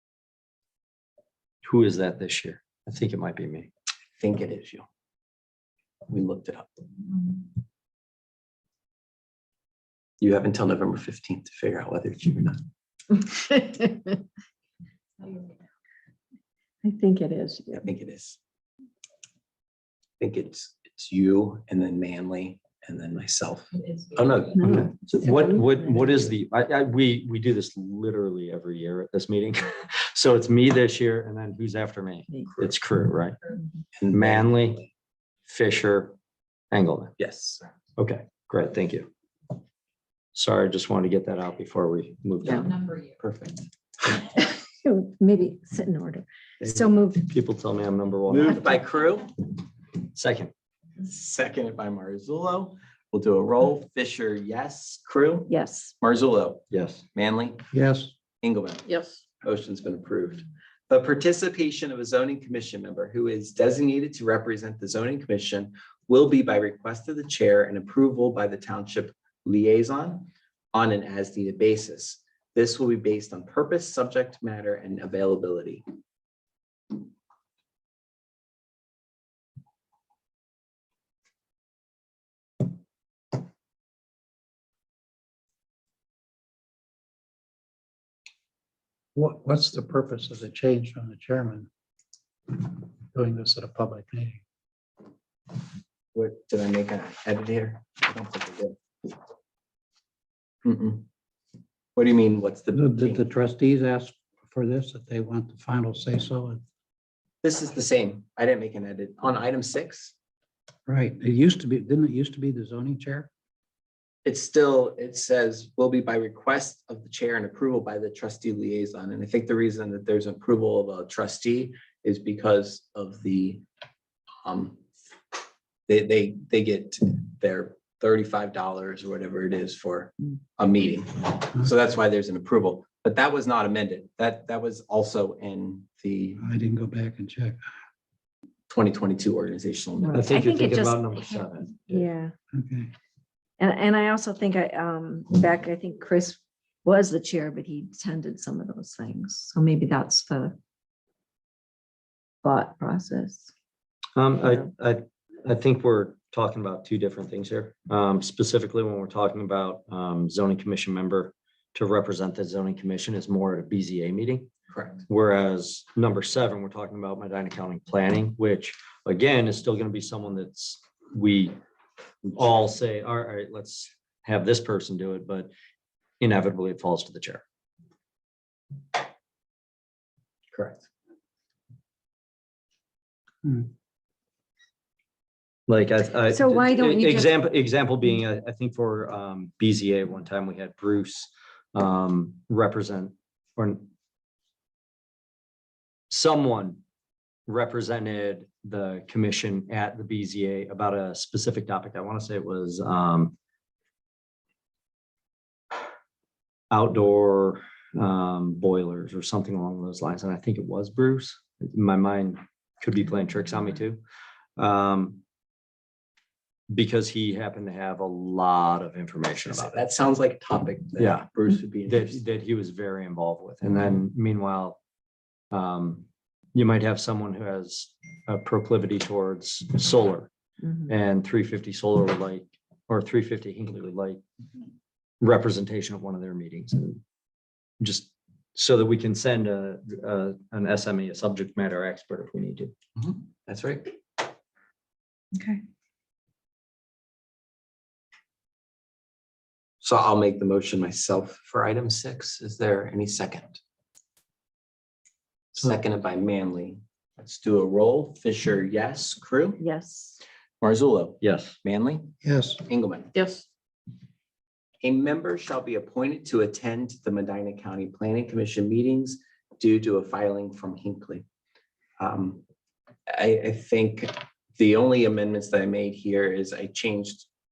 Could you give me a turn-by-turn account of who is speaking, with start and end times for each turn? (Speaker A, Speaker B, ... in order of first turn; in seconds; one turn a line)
Speaker A: 1.6-3.7
Speaker B: 4.2-4.9
Speaker B: 6.1-6.7
Speaker B: 10.2-12.6
Speaker C: 16.8-17.9
Speaker B: 17.8-18.4
Speaker B: 20.2-24.8
Speaker C: 24.6-24.9
Speaker A: 24.6-33.4
Speaker B: 34.0-34.9
Speaker A: 34.1-34.8
Speaker A: 35.5-36.1
Speaker A: 36.7-37.2
Speaker B: 37.2-37.6
Speaker A: 38.0-39.1
Speaker A: 40.3-42.7
Speaker B: 43.2-43.7
Speaker C: 44.4-47.3
Speaker A: 47.2-48.7
Speaker B: 48.3-49.3
Speaker A: 50.1-50.5
Speaker B: 51.0-57.7
Speaker C: 55.5-55.9
Speaker A: 56.7-57.0
Speaker D: 57.7-58.1
Speaker B: 58.4-75.8
Speaker D: 89.1-91.7
Speaker D: 92.5-94.4
Speaker B: 96.1-98.8
Speaker B: 100.6-101.0
Speaker B: 102.0-103.3
Speaker D: 102.7-106.6
Speaker B: 107.4-110.1
Speaker D: 110.9-113.3
Speaker B: 114.2-123.6
Speaker B: 124.4-124.8
Speaker B: 125.9-136.4
Speaker D: 136.4-137.6
Speaker B: 138.7-140.3
Speaker C: 140.0-142.3
Speaker A: 140.1-142.1
Speaker D: 142.5-142.9
Speaker C: 143.6-150.6
Speaker C: 152.4-153.5
Speaker A: 154.2-164.5
Speaker B: 164.7-165.0
Speaker A: 165.1-171.5
Speaker A: 172.2-175.5
Speaker A: 176.2-177.4
Speaker B: 180.5-180.8
Speaker D: 183.4-183.7
Speaker A: 185.7-193.9
Speaker C: 186.3-187.3
Speaker A: 196.1-196.8
Speaker A: 197.5-203.3
Speaker A: 206.7-214.0
Speaker A: 214.6-215.2
Speaker A: 216.7-219.8
Speaker B: 219.5-222.2
Speaker A: 221.0-221.3
Speaker A: 221.8-224.8
Speaker A: 225.5-230.3
Speaker A: 230.8-234.2
Speaker A: 235.2-237.0
Speaker A: 237.8-242.7
Speaker B: 242.9-244.0
Speaker B: 249.8-253.6
Speaker B: 255.5-259.6
Speaker C: 259.6-260.2
Speaker B: 260.6-262.1
Speaker A: 261.2-261.6
Speaker D: 262.2-262.6
Speaker B: 262.6-263.1
Speaker C: 263.1-263.4
Speaker B: 264.8-271.2
Speaker B: 272.0-272.4
Speaker B: 273.1-277.3